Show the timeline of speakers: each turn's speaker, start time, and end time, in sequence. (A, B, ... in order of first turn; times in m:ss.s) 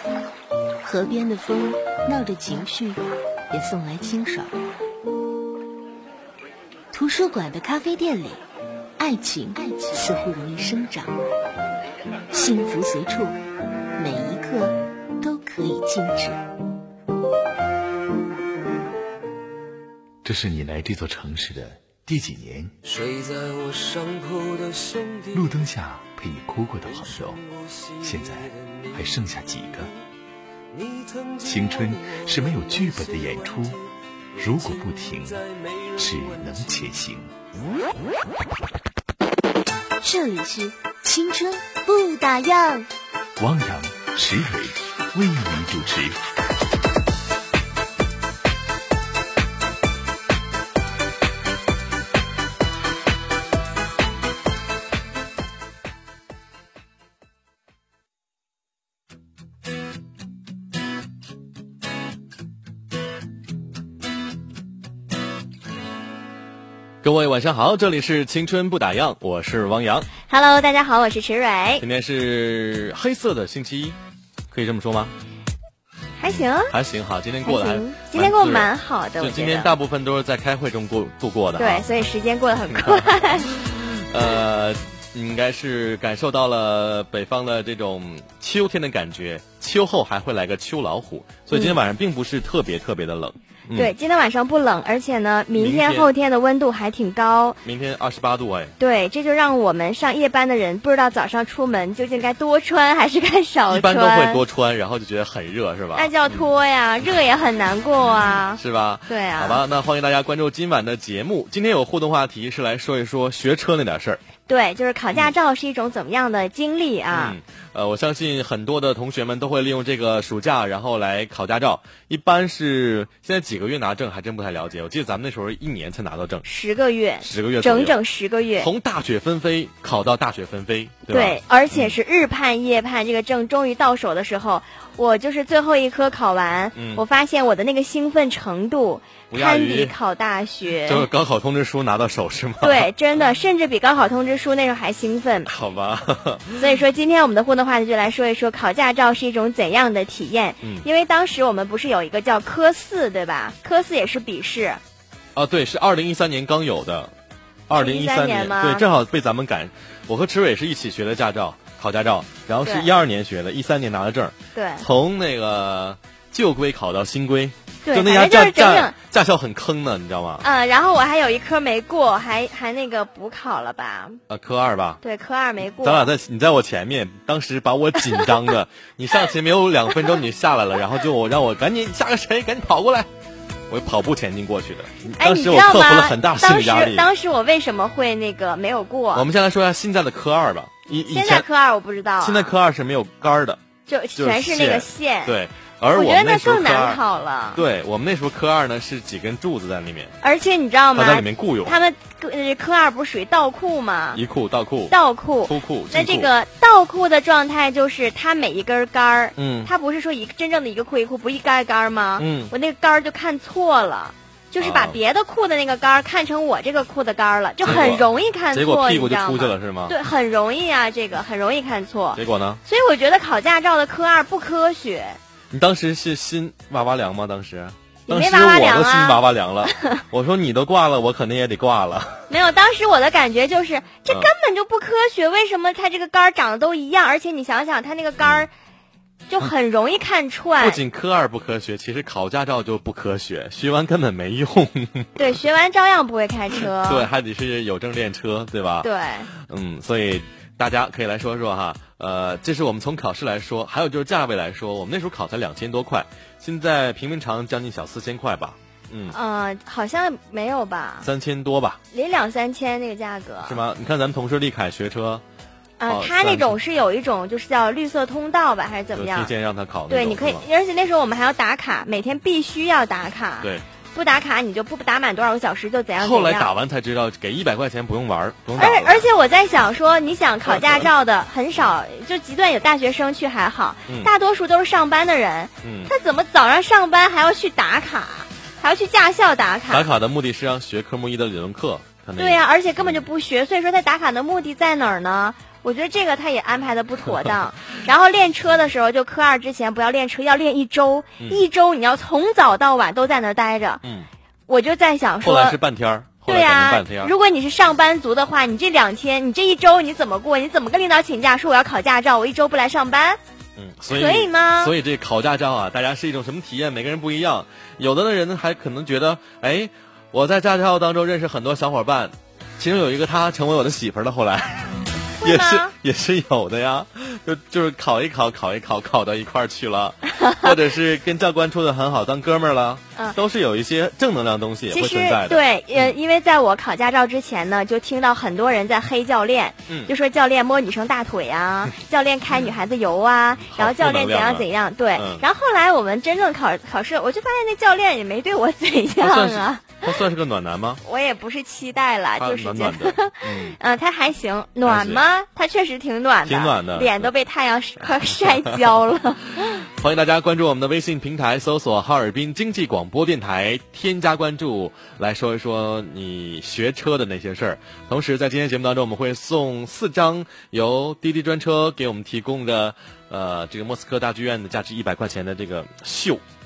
0:00.8-0:04.6 A
0:06.9-0:08.4 A
0:09.0-0:11.2 A
0:12.3-0:13.4 A
0:14.0-0:16.4 A
0:20.2-0:22.7 B
0:22.8-0:25.4 C
0:25.3-0:27.4 B
0:27.0-0:29.0 C
0:28.0-0:29.9 B
0:30.7-0:32.2 C
0:31.4-0:33.8 B
0:34.4-0:35.4 B
0:35.5-0:36.5 C
0:36.0-0:37.3 B
0:40.0-0:42.9 A
0:43.4-0:46.3 B
1:07.0-1:10.1 D
1:10.2-1:11.8 E
1:11.8-1:14.0 D
1:14.5-1:15.1 D
1:16.2-1:16.7 E
1:16.7-1:21.9 D
1:17.4-1:19.7 E
1:21.6-1:23.6 E
1:22.7-1:33.9 D
1:31.5-1:31.8 E
1:33.8-1:37.6 E
1:35.5-1:36.1 D
1:37.6-1:38.7 D
1:38.8-1:44.4 E
1:43.7-1:46.4 D
1:46.0-1:49.6 E
1:48.6-1:54.2 D
1:54.5-1:57.4 E
1:57.1-2:06.4 D
2:06.4-2:08.7 E
2:07.2-2:08.0 D
2:08.6-2:12.0 D
2:11.1-2:21.1 E
2:16.8-2:17.0 D
2:19.3-2:20.0 D
2:20.9-2:22.9 D
2:22.6-2:25.5 E
2:25.5-2:26.7 D
2:26.6-2:34.8 E
2:35.4-2:37.1 D
2:37.7-2:50.4 D
2:37.7-2:38.8 E
2:44.6-2:44.9 E
2:47.8-2:49.0 E
2:50.4-2:54.2 E
2:54.3-2:55.0 D
2:55.0-2:56.1 E
2:55.8-3:03.1 D
3:03.7-3:07.1 D
3:05.2-3:09.3 E
3:09.1-3:11.5 D
3:11.1-3:12.5 E
3:12.2-3:13.6 D
3:13.9-3:15.4 E
3:14.2-3:17.0 D
3:15.9-3:17.6 E
3:17.6-3:20.2 D
3:20.2-3:24.2 E
3:21.0-3:21.8 D
3:24.1-3:26.3 D
3:24.9-3:45.2 E
3:29.4-3:29.7 D
3:32.2-3:32.5 D
3:34.6-3:35.0 D
3:37.6-3:40.0 D
3:42.2-3:42.6 D
3:45.5-3:52.3 D
3:48.1-3:49.2 E
3:49.7-3:50.0 E
3:52.3-3:58.5 E
3:59.3-4:00.8 E
4:00.6-4:05.4 D
4:05.2-4:07.1 E
4:06.8-4:19.2 D
4:08.8-4:09.3 E
4:19.1-4:21.1 E
4:21.0-4:21.8 D
4:21.9-4:23.6 E
4:23.4-4:25.2 D
4:25.8-4:29.3 E
4:25.9-4:26.6 D
4:29.0-4:30.4 D
4:29.9-4:36.5 E
4:36.0-4:39.1 D
4:38.6-4:49.8 E
4:40.5-4:40.9 D
4:45.6-4:45.9 D
4:49.7-4:53.0 D
4:52.2-5:03.8 E
5:04.5-5:05.6 E
5:05.2-5:07.1 D
5:06.3-5:13.2 E
5:13.6-5:35.9 D
5:13.9-5:14.7 E
5:25.2-5:25.7 E
5:30.2-5:30.5 E
5:34.7-5:50.0 E
5:43.5-5:45.2 D
5:49.0-5:50.8 D
5:50.8-5:59.4 E
5:52.2-5:53.6 D
5:54.6-5:55.0 D
5:56.3-5:57.1 D
5:57.8-5:58.6 D
5:59.6-6:16.2 D